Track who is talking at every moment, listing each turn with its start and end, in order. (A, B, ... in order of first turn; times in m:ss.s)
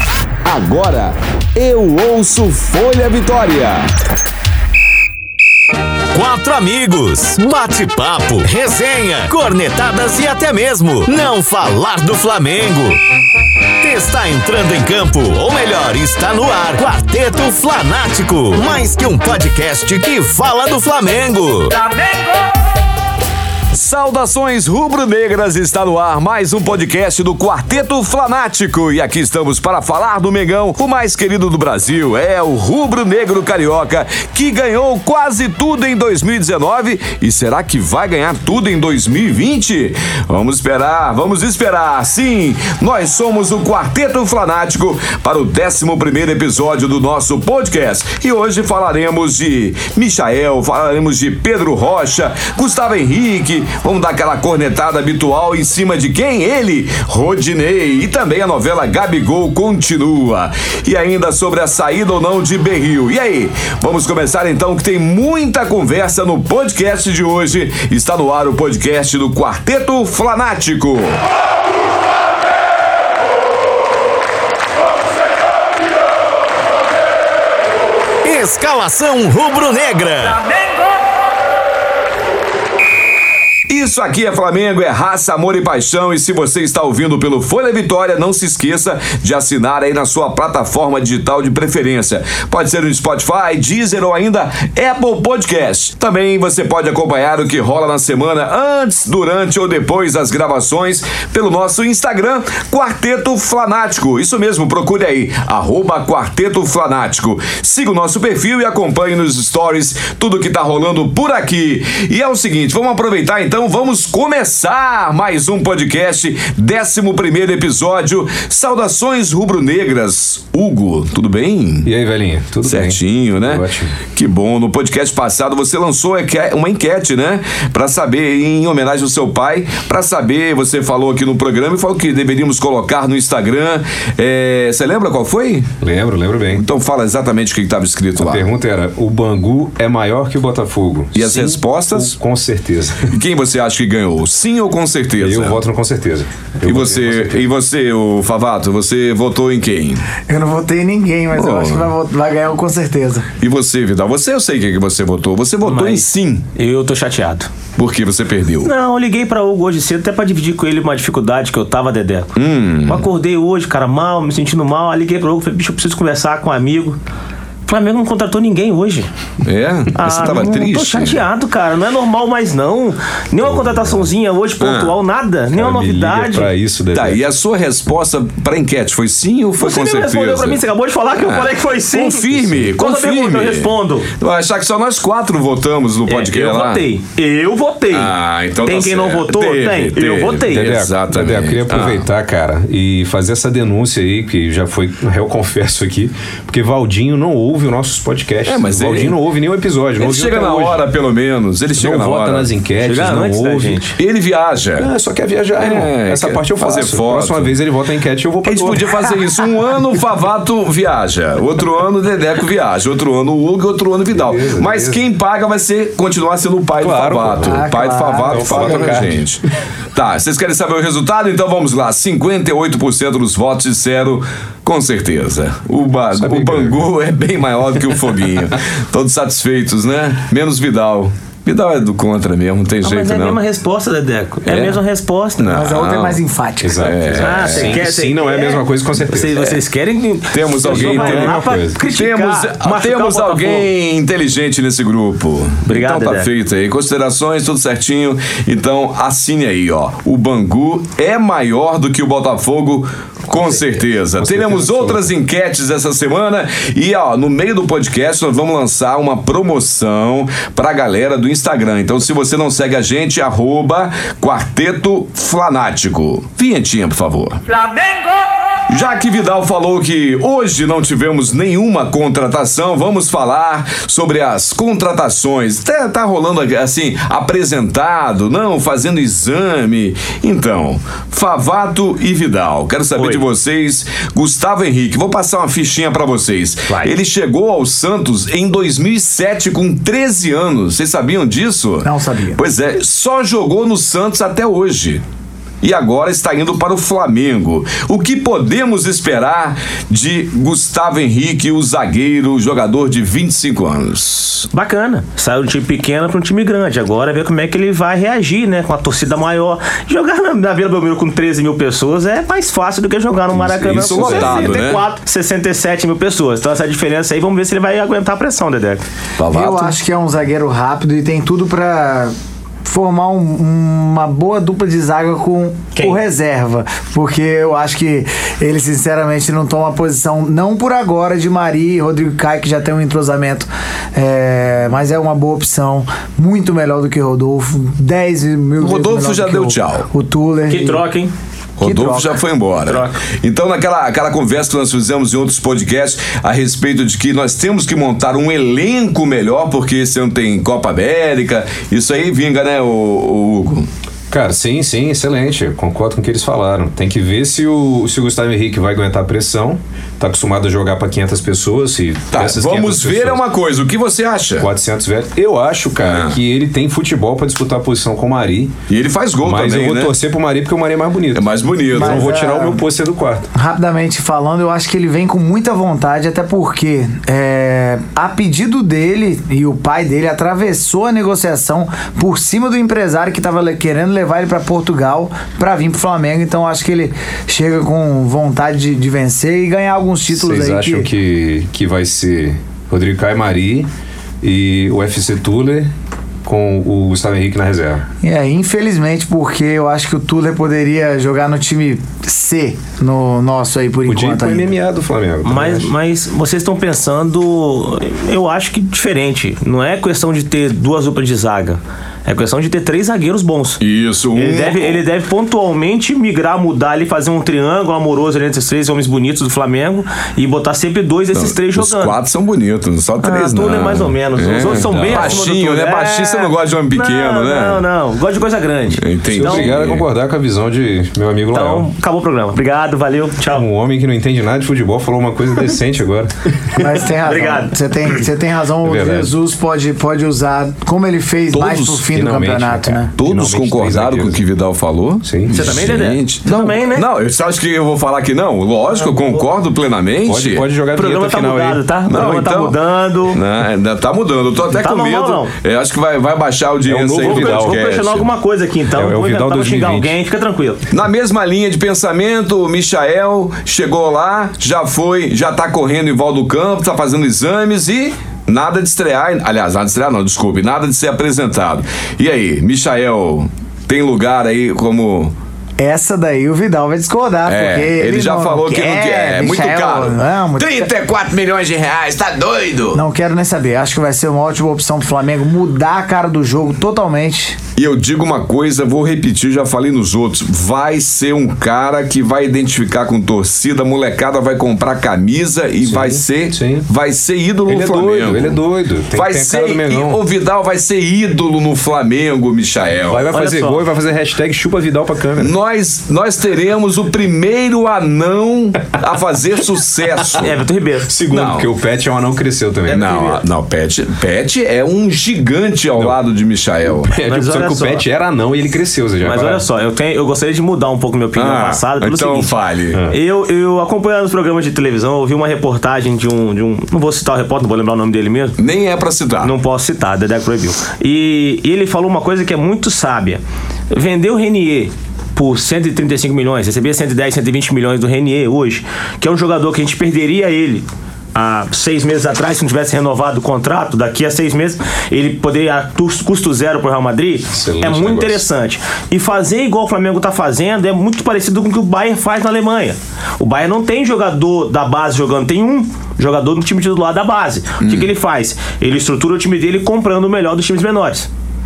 0:00.4-0:03.9 A
0:06.1-0:13.0 B
0:13.8-0:22.1 B
0:23.7-1:11.2 A
1:18.2-1:20.4 B
1:23.7-2:01.9 A
2:01.8-2:04.0 C
2:02.6-2:15.7 A
2:15.8-2:16.6 C
2:16.5-2:18.5 A
2:18.2-2:23.1 C
2:21.1-2:22.2 A
2:23.1-2:25.6 A
2:25.2-2:27.4 C
2:26.6-2:30.1 A
2:30.3-2:33.3 D
2:31.3-2:31.9 A
2:33.4-2:36.4 A
2:35.6-2:37.5 E
2:37.8-2:38.7 A
2:38.6-2:47.0 E
2:42.4-2:43.0 A
2:47.7-2:49.1 E
2:49.4-2:51.2 A
2:49.9-2:56.5 E
2:53.6-2:54.0 C
2:54.6-2:54.9 A
2:55.5-2:57.2 C
2:56.9-3:00.6 A
2:59.6-3:04.1 E
3:01.2-3:06.8 A
3:02.4-3:02.7 C
3:06.1-3:10.8 E
3:07.9-3:12.0 A
3:10.5-3:20.8 C
3:18.4-3:19.2 A
3:20.0-3:22.5 A
3:21.8-3:23.8 C
3:22.8-3:24.0 E
3:24.0-3:24.9 A
3:24.8-3:29.1 C
3:25.6-3:27.6 A
3:28.4-3:53.4 A
3:34.1-3:35.0 C
3:36.8-3:37.6 C
3:37.4-3:39.1 D
3:38.3-3:39.2 C
3:46.1-3:46.8 C
3:52.8-3:55.5 E
3:54.4-3:54.8 A
3:55.4-3:56.2 A
3:55.4-3:56.9 D
3:56.6-3:59.6 C
3:56.8-3:57.8 A
3:57.2-4:03.7 E
4:00.3-4:27.4 A
4:00.6-4:01.8 C
4:05.7-4:06.3 E
4:14.2-4:15.1 C
4:28.7-4:55.0 A
4:43.0-4:43.2 E
4:46.7-4:46.9 E
4:51.8-4:52.4 D
4:55.6-5:04.5 A
5:04.5-5:18.8 E
5:13.3-5:14.6 C
5:13.6-5:14.8 A
5:19.2-5:19.8 A
5:19.3-5:22.1 D
5:22.6-5:40.8 D
5:38.6-5:39.9 A
5:40.5-5:41.1 E
5:41.6-5:53.7 A
5:41.6-5:42.2 D
5:42.6-5:43.0 E
5:54.1-6:03.2 C
6:02.1-6:04.5 A
6:04.4-6:08.6 C
6:05.8-6:06.2 A
6:08.7-6:10.0 A
6:09.2-6:13.3 C
6:11.1-6:12.1 A
6:11.7-6:12.6 D
6:13.3-6:30.9 D
6:30.1-6:33.7 C
6:34.2-6:35.7 C
6:36.2-6:37.8 C
6:38.0-6:44.5 D
6:43.9-6:45.7 C
6:45.2-6:53.6 E
6:53.6-6:54.8 A
6:54.1-7:02.0 E
7:01.1-7:07.6 A
7:03.0-7:09.6 E
7:04.4-7:05.2 C
7:08.7-7:09.9 A
7:09.1-7:11.7 C
7:11.3-7:13.5 E
7:13.3-7:16.7 C
7:16.5-7:22.9 D
7:17.0-7:18.1 E
7:18.6-7:19.1 C
7:21.3-7:21.8 A
7:21.9-7:24.2 C
7:23.0-7:30.4 A
7:25.0-7:25.6 C
7:25.3-7:26.9 E
7:28.8-7:29.3 E
7:30.0-7:31.6 C
7:30.7-7:33.2 E
7:31.8-7:38.1 A
7:34.5-7:35.3 E
7:36.6-7:37.6 C
7:37.0-7:40.6 E
7:38.7-7:39.9 C
7:40.7-7:55.1 A
7:55.6-8:00.7 D
7:57.2-8:02.8 A
8:02.7-8:07.4 D
8:07.6-8:18.4 A
8:15.6-8:16.7 C
8:17.5-8:20.0 C
8:18.9-8:23.1 A
8:22.8-8:25.3 C
8:23.1-8:23.7 E
8:25.2-8:30.3 A
8:30.1-8:30.9 E
8:30.8-8:32.9 C
8:31.1-8:31.5 A
8:32.6-8:33.2 E
8:32.7-8:36.9 A
8:36.6-8:39.4 C
8:37.1-8:37.8 E
8:39.0-8:42.3 E
8:41.1-8:42.8 A
8:42.7-8:43.0 C
8:42.9-8:48.4 E
8:48.4-8:49.3 A
8:49.2-9:21.1 E
9:07.3-9:08.2 C
9:17.6-9:17.9 A